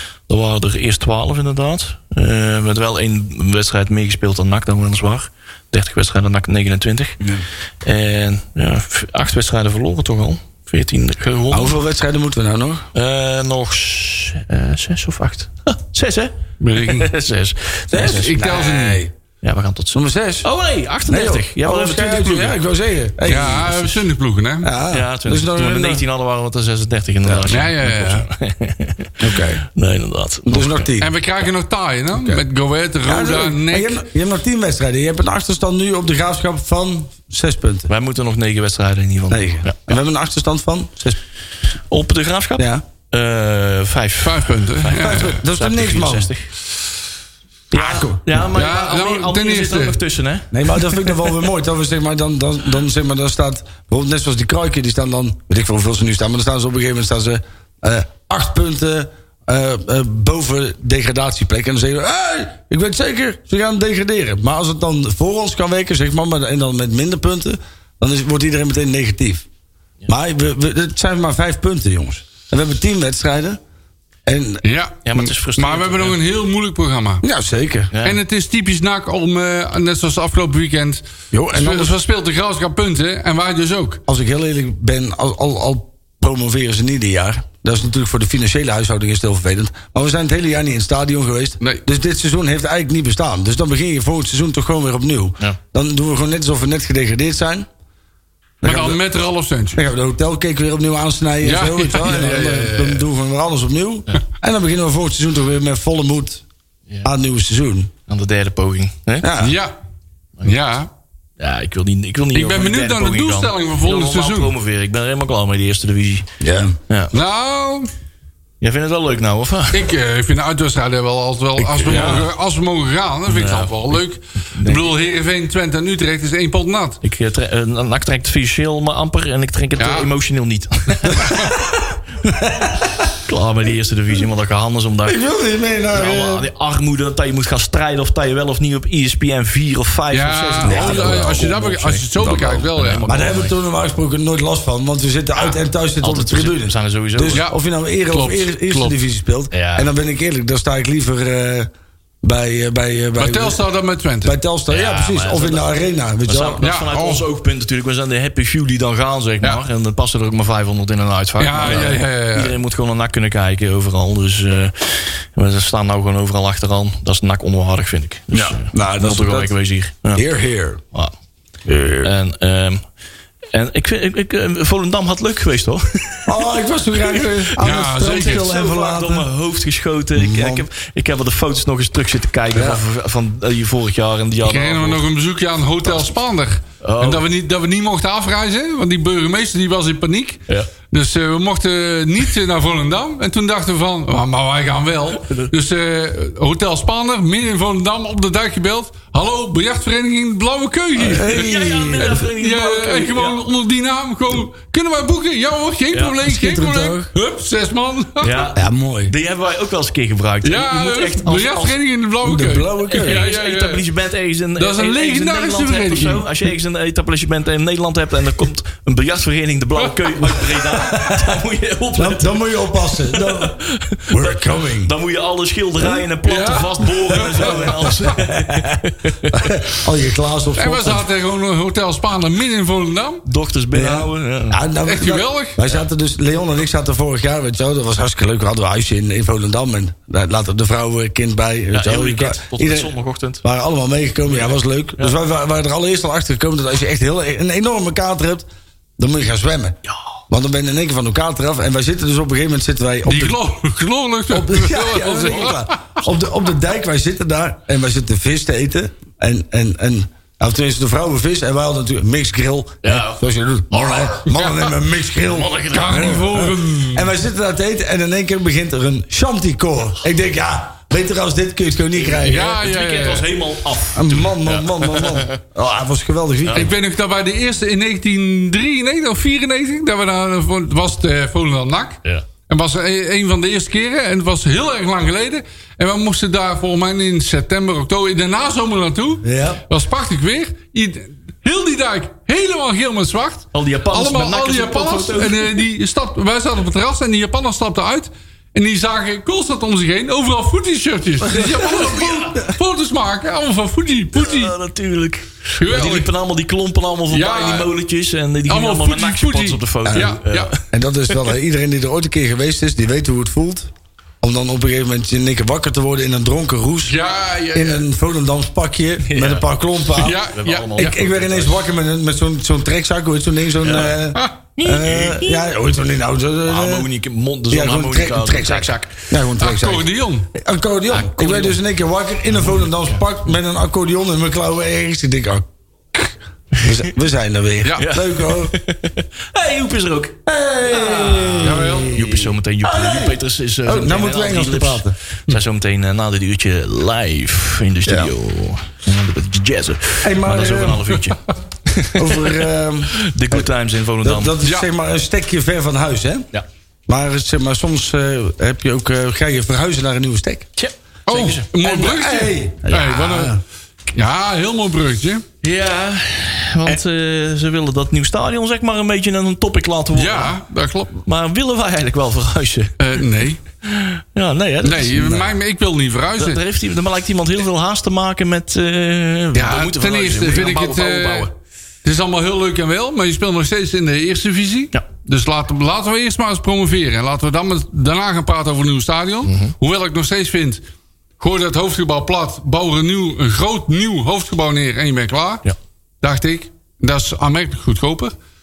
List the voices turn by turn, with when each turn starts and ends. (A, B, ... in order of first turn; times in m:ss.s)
0:00.3-0:07.2 A
0:07.8-0:11.8 A
0:11.5-0:12.9 B
0:12.9-0:18.4 A
0:16.6-0:17.1 C
0:17.9-0:19.1 B
0:18.0-0:19.0 C
0:19.4-0:22.6 A
0:19.9-0:20.5 B
0:21.1-0:23.9 B
0:23.2-0:24.7 C
0:24.6-0:26.0 B
0:24.9-0:30.9 A
0:27.2-0:27.5 B
0:27.5-0:28.3 C
0:29.2-0:29.6 B
0:30.5-0:31.1 B
0:31.0-0:34.0 C
0:33.1-0:37.9 B
0:37.9-0:39.9 A
0:39.3-0:41.2 B
0:41.9-0:46.5 A
0:42.6-0:42.8 B
0:44.2-0:45.4 C
0:44.9-0:46.3 B
0:47.7-0:51.1 A
0:47.7-0:48.2 B
0:48.4-0:50.0 C
0:50.5-1:09.5 B
1:10.1-1:13.6 B
1:14.3-1:14.6 B
1:14.6-1:17.2 C
1:15.0-1:16.2 A
1:17.2-1:17.9 B
1:17.9-1:18.2 A
1:18.0-1:24.0 C
1:21.3-1:22.0 B
1:24.1-1:37.7 B
1:38.6-1:39.8 C
1:38.6-1:39.0 B
1:39.7-1:46.4 B
1:41.4-1:43.1 C
1:47.0-1:47.9 B
1:48.1-1:49.3 A
1:49.2-1:49.6 B
1:49.4-1:49.7 C
1:50.4-1:50.9 C
1:51.4-1:56.3 A
1:52.3-1:54.5 C
1:56.4-1:56.8 B
1:56.9-1:57.1 A
1:57.1-1:57.9 C
1:58.6-1:59.9 A
1:59.7-2:07.0 C
2:01.6-2:02.3 B
2:01.8-2:02.2 A
2:03.3-2:04.0 A
2:04.5-2:04.9 A
2:07.0-2:11.5 A
2:09.8-2:10.1 C
2:11.3-2:11.7 B
2:12.2-2:12.9 B
2:13.2-2:15.2 A
2:15.0-2:16.5 B
2:15.9-2:23.5 A
2:20.1-2:23.3 C
2:20.6-2:21.5 B
2:23.1-2:31.7 B
2:25.4-2:27.4 A
2:28.1-2:29.0 C
2:29.5-2:29.9 A
2:32.2-2:33.6 B
2:33.2-2:34.4 C
2:34.2-2:36.6 B
2:34.7-2:35.7 A
2:36.3-2:50.2 A
2:36.6-2:37.2 C
2:41.4-2:42.6 C
2:48.3-2:49.5 B
2:50.1-2:50.8 B
2:51.7-2:52.1 B
2:52.0-2:52.8 A
2:53.5-2:56.4 A
2:56.3-2:59.3 B
2:56.9-3:05.0 A
2:57.6-2:58.5 C
3:00.2-3:00.7 B
3:02.5-3:02.8 B
3:04.4-3:28.5 C
3:06.8-3:07.3 A
3:15.2-3:15.5 A
3:21.0-3:22.2 B
3:21.1-3:23.4 A
3:26.2-3:27.1 B
3:28.2-3:31.8 A
3:28.6-3:29.1 B
3:30.4-3:33.8 C
3:32.2-3:33.2 B
3:32.9-3:49.5 A
3:34.6-3:36.5 C
3:39.9-3:40.3 C
3:40.8-3:41.3 B
3:42.0-3:44.9 B
3:46.2-3:48.0 C
3:47.2-3:48.8 B
3:49.3-3:51.1 B
3:50.6-3:53.2 C
3:53.2-3:54.6 A
3:53.7-4:08.5 B
3:54.8-3:55.6 C
4:01.7-4:03.4 A
4:04.3-4:05.2 A
4:09.0-4:09.8 B
4:10.3-4:13.4 B
4:13.1-4:15.8 C
4:14.3-4:32.5 B
4:22.8-4:24.3 A
4:24.3-4:24.6 C
4:25.2-4:26.2 A
4:25.7-4:27.1 C
4:32.0-4:35.4 A
4:32.2-4:33.3 C
4:34.0-4:36.7 B
4:36.5-5:04.6 C
4:49.2-4:49.6 B
4:53.5-4:55.6 A
5:01.2-5:02.4 A
5:01.9-5:02.5 B
5:04.2-5:10.6 A
5:05.6-5:06.1 C
5:07.1-5:07.7 C
5:08.5-5:10.5 C
5:10.7-5:13.7 B
5:14.2-5:17.0 B
5:16.9-5:17.8 C
5:17.5-5:20.2 B
5:19.0-5:21.6 A
5:20.0-5:21.0 C
5:20.8-5:26.9 B
5:23.6-5:24.0 A
5:24.6-5:25.4 A
5:26.5-5:29.0 A
5:27.5-5:38.6 B
5:29.4-5:30.3 C
5:30.9-5:31.6 A
5:32.4-5:33.0 A
5:37.8-5:52.4 A
5:40.3-5:45.0 B
5:41.4-5:42.0 C
5:47.9-5:48.1 B
5:50.0-5:50.9 B
5:51.9-5:53.5 B
5:52.9-5:54.4 A
5:54.0-5:56.3 B
5:56.9-6:00.5 B
6:00.6-6:01.5 A
6:01.1-6:03.4 C
6:01.6-6:03.4 B
6:03.9-6:05.2 C
6:05.4-6:10.4 A
6:09.9-6:11.0 C
6:11.0-6:12.8 A
6:12.8-6:13.4 C
6:13.6-6:15.2 A
6:14.6-6:16.4 C
6:14.9-6:15.3 B
6:16.2-6:21.3 A
6:19.3-6:21.3 C
6:21.8-6:30.6 C
6:29.2-6:29.5 A
6:31.2-6:35.4 C
6:36.0-6:38.1 C